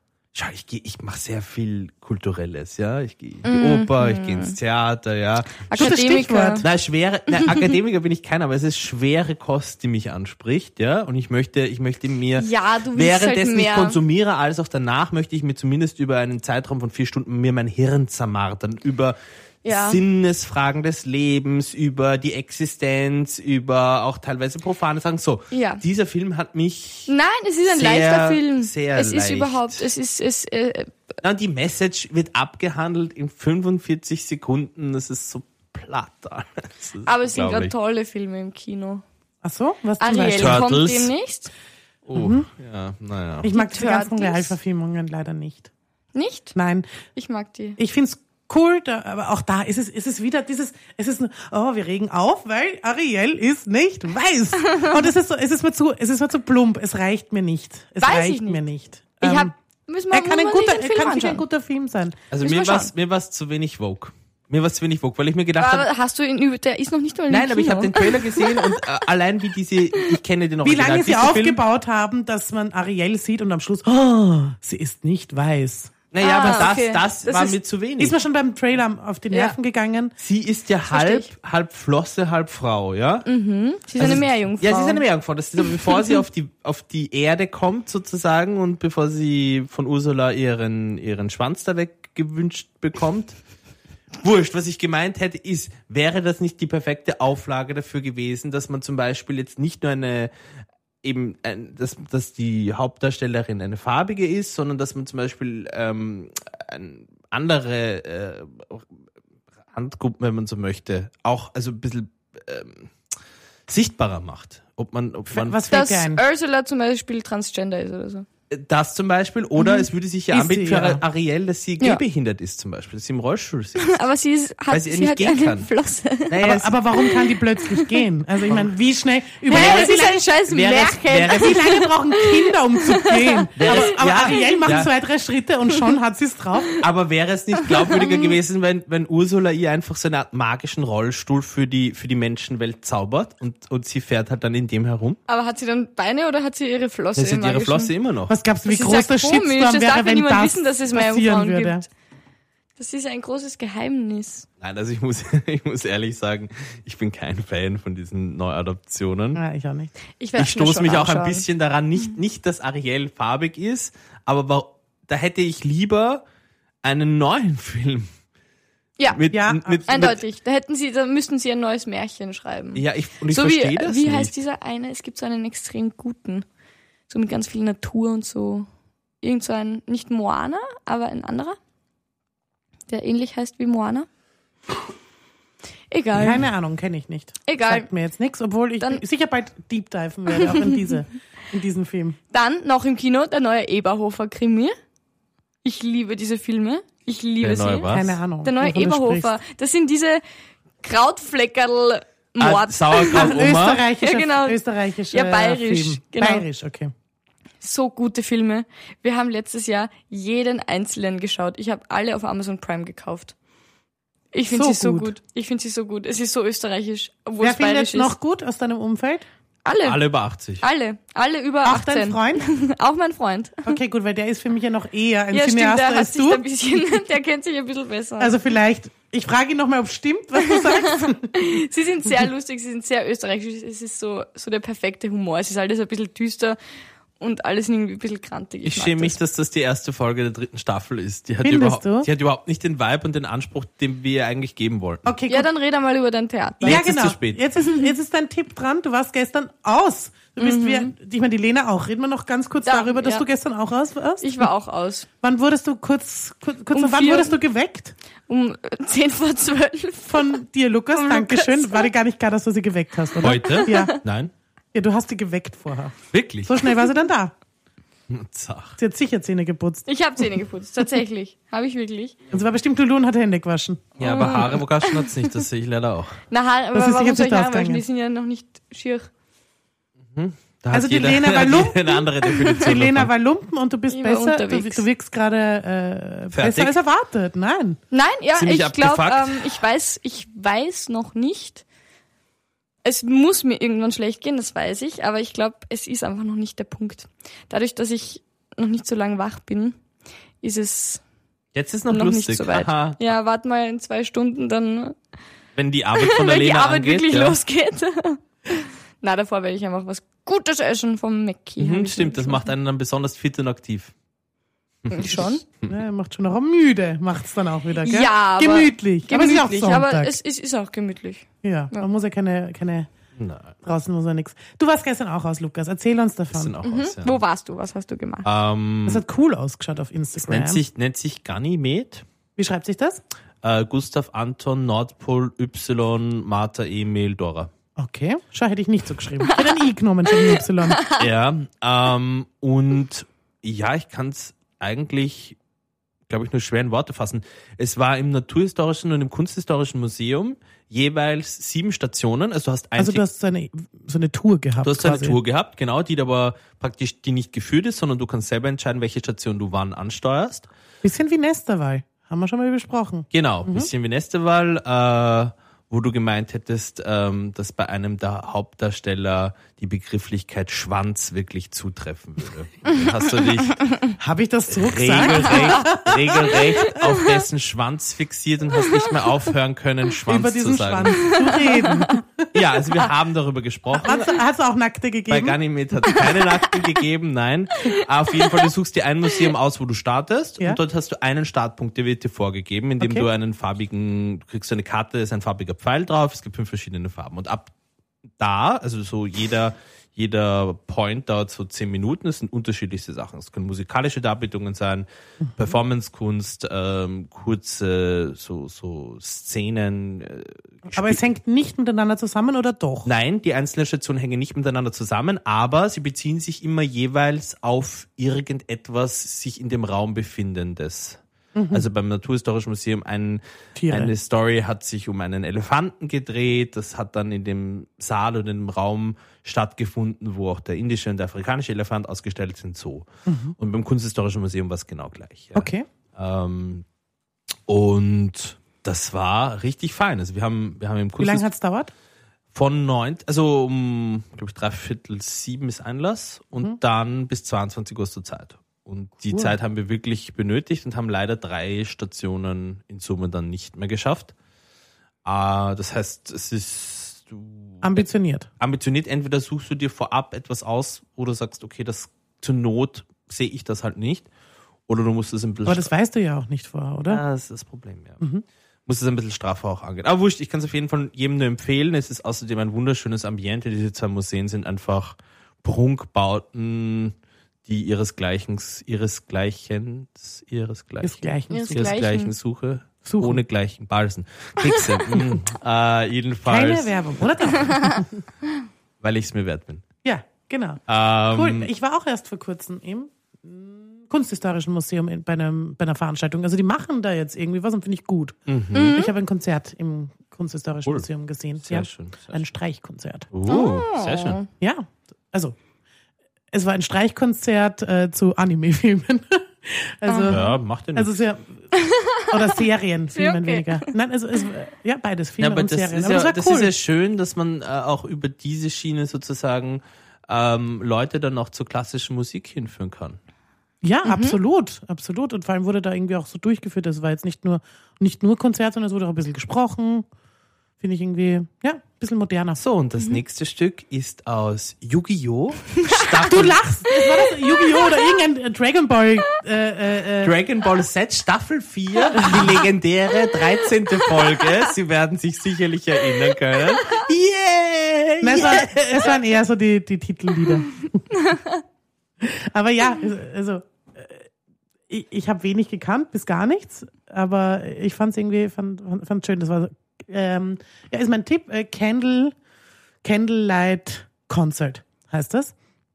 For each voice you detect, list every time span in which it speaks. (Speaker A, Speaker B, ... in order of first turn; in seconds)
Speaker A: 0.3-6.0, 6.6-27.1, 27.7-29.9, 31.2-37.7, 40.4-41.1, 42.0-43.5, 62.3-65.9, 67.3-71.6, 76.1-78.2, 80.2-83.2, 84.0-93.4, 94.2-100.3, 101.0-108.9, 109.7-112.9, 113.7-115.6, 118.5-124.0, 124.7-125.7, 126.3-126.7, 129.5-131.7, 133.6-134.9, 136.8-145.2, 147.2-148.3, 154.6-159.4, 160.3-166.2, 166.8-168.1, 169.1-170.2, 172.7-174.3, 197.4-198.2, 202.4-203.8, 219.8-220.6, 238.6-245.1, 246.6-247.4, 263.2-264.3, 266.1-266.6, 268.1-268.8, 274.0-276.2, 280.1-283.1, 286.3-286.8, 288.4-289.6, 301.5-303.1, 305.6-307.4, 311.6-313.9, 314.8-315.7, 323.1-323.6, 326.3-327.2, 328.2-329.0, 330.2-332.0, 333.4-337.5, 341.0-345.4, 346.1-353.0, 354.6-360.5, 363.1-373.8, 374.5-381.1, 382.3-384.2, 385.1-397.5, 398.2-404.9, 405.4-411.0, 412.8-421.0, 421.5-432.9, 433.4-436.6, 437.5-441.3, 442.3-454.1, 455.0-457.9, 458.4-464.1, 464.7-465.7, 466.9-468.0, 468.6-486.7, 488.8-489.6, 490.7-491.5, 498.3-498.8, 501.4-502.2, 503.1-504.2, 510.1-510.9, 515.2-523.0, 532.4-536.4, 540.0-548.9
Speaker B: 3.4-4.5, 5.7-6.6, 12.3-14.0, 19.6-20.0, 25.5-25.8, 27.1-30.9, 37.0-39.0, 40.0-41.5, 43.5-44.5, 46.1-46.5, 47.1-47.8, 58.0-58.6, 59.2-61.4, 62.4-62.9, 65.6-68.8, 76.2-77.6, 80.9-81.3, 83.2-85.0, 85.6-86.1, 115.7-118.2, 119.6-119.8, 123.8-126.4, 127.0-128.0, 129.5-134.8, 137.6-138.3, 145.3-147.9, 148.7-151.8, 152.8-154.5, 160.2-161.4, 169.9-176.4, 177.1-178.7, 179.2-181.6, 182.9-184.1, 185.9-186.4, 187.5-187.9, 190.3-190.9, 192.3-194.8, 195.6-200.2, 200.8-204.6, 205.1-206.4, 207.6-213.3, 214.3-218.1, 219.6-220.0, 220.6-223.8, 225.3-228.3, 230.4-236.6, 237.2-239.2, 245.3-246.8, 247.6-247.9, 250.4-250.9, 252.6-253.2, 254.2-255.1, 256.7-257.4, 258.3-260.4, 260.9-261.9, 263.2-264.0, 269.9-272.2, 274.0-275.1, 276.3-279.1, 282.2-282.6, 283.9-284.8, 287.9-291.6, 292.8-299.8, 300.4-301.0, 301.9-304.9, 305.9-312.5, 314.9-315.4, 317.8-321.8, 326.6-328.2, 340.1-341.0, 381.1-382.0, 385.9-386.2, 481.3-482.1, 498.5-498.9, 503.3-504.3, 509.9-510.2, 511.5-512.3, 512.9-513.7, 523.8-524.1, 535.6-535.9, 537.2-537.7, 550.9-551.4
Speaker C: 5.7-6.6, 39.4-40.6, 42.1-42.5, 43.4-45.7, 46.5-46.9, 47.8-59.5, 60.1-62.2, 70.6-76.6, 78.0-80.1, 115.3-116.2, 120.3-121.0, 126.4-130.4, 131.1-136.8, 148.3-151.8, 159.3-159.9, 169.3-169.9, 186.1-192.2, 197.9-199.3, 203.1-206.9, 214.5-215.1, 217.4-219.2, 221.6-222.4, 223.7-226.4, 228.2-231.6, 241.4-242.1, 245.0-245.5, 246.6-254.5, 255.2-257.9, 260.1-264.0, 264.7-267.3, 268.8-269.9, 272.3-273.9, 276.7-277.8, 280.7-282.0, 282.5-287.8, 315.7-320.1, 321.4-322.9, 323.6-326.6, 328.9-330.6, 332.4-333.0, 337.8-340.8, 352.8-355.2, 360.8-363.7, 374.0-376.8, 380.1-382.3, 383.7-385.4, 392.8-393.1, 410.7-412.9, 421.3-421.6, 423.6-423.9, 433.1-433.3, 435.3-435.6, 441.0-441.7, 457.6-458.3, 465.4-467.0, 480.8-481.7, 482.8-483.2, 486.3-488.0, 489.8-503.1, 504.4-505.3, 506.3-511.4, 512.1-516.5, 523.6-529.8, 530.6-532.4, 536.0-540.1, 548.0-550.8, 552.0-554.0, 554.7-562.1, 562.8-565.3